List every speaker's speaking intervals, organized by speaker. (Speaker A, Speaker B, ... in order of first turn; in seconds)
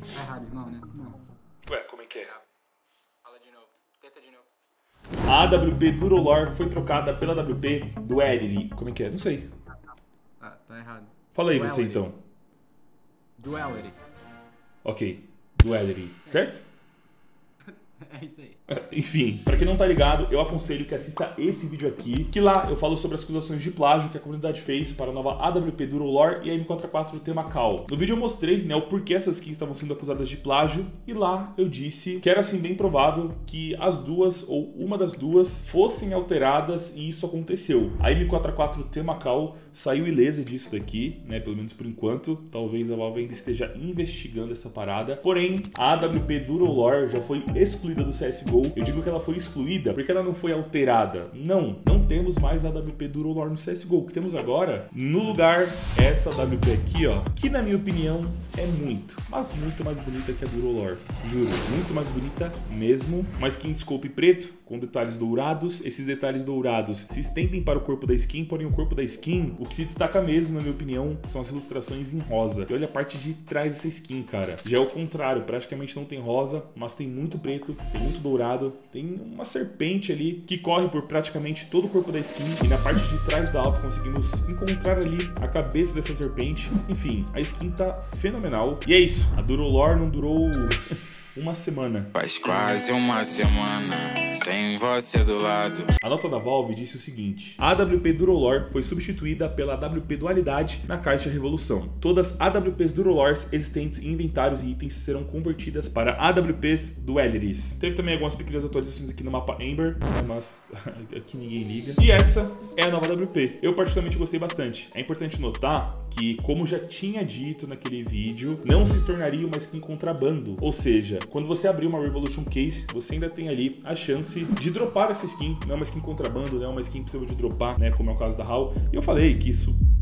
Speaker A: 0.1-1.2, 3.2-4.5, 10.4-12.1, 13.4-14.0, 17.7-18.6
Speaker B: 1.7-2.3, 5.2-9.5, 11.3-12.2, 14.8-16.6, 18.7-90.8, 91.3-92.1, 96.0-129.8
Speaker C: 92.2-95.9